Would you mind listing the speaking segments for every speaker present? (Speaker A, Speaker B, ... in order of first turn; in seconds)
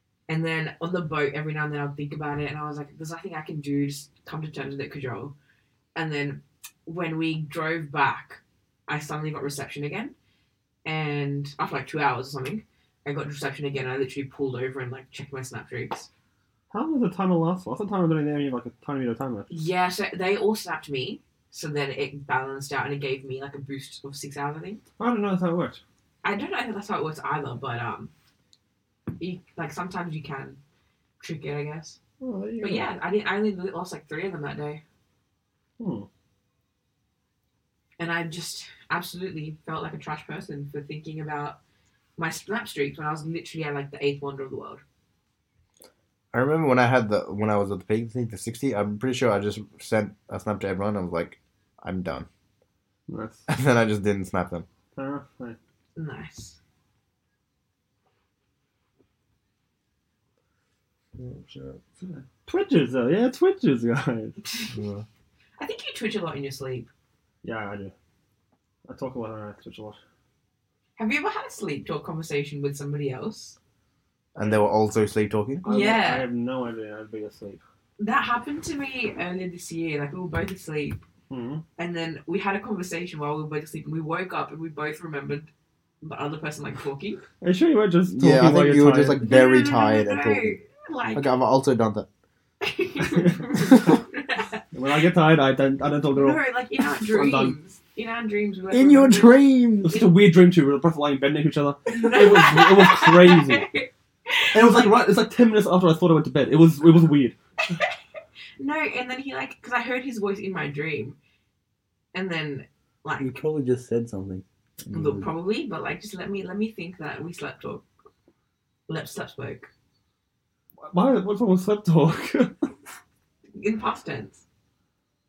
Speaker A: 0.3-5.3, 6.0-10.1, 10.8-16.1, 19.5-24.8, 26.2-28.1, 29.2-30.6, 31.2-32.0, 32.6-34.8, 38.0-41.6, 42.2-44.8, 56.0-56.6, 65.6-66.9, 71.0-73.6, 75.7-76.3, 78.0-81.0, 81.8-85.5, 86.0-87.2, 89.2-91.3, 92.6-94.6, 96.1-99.4, 101.9-104.8, 108.6-111.2, 112.1-113.4, 114.9-117.8, 118.9-119.7, 123.6-124.4
Speaker B: 16.7-19.5, 25.0-25.8, 32.2-32.9, 35.8-36.1, 53.1-53.5, 55.0-55.6, 62.5-64.4, 67.4-67.9, 68.9-70.0, 75.6-77.6, 81.3-81.6, 87.4-89.2, 93.1-93.9, 94.7-97.6, 99.8-103.7, 104.5-107.3, 120.8-122.7
Speaker C: 46.3-52.3, 53.5-54.7, 61.2-61.9, 64.7-65.0, 74.3-75.7, 88.1-90.6, 91.2-92.1, 98.7-100.0, 113.2-115.3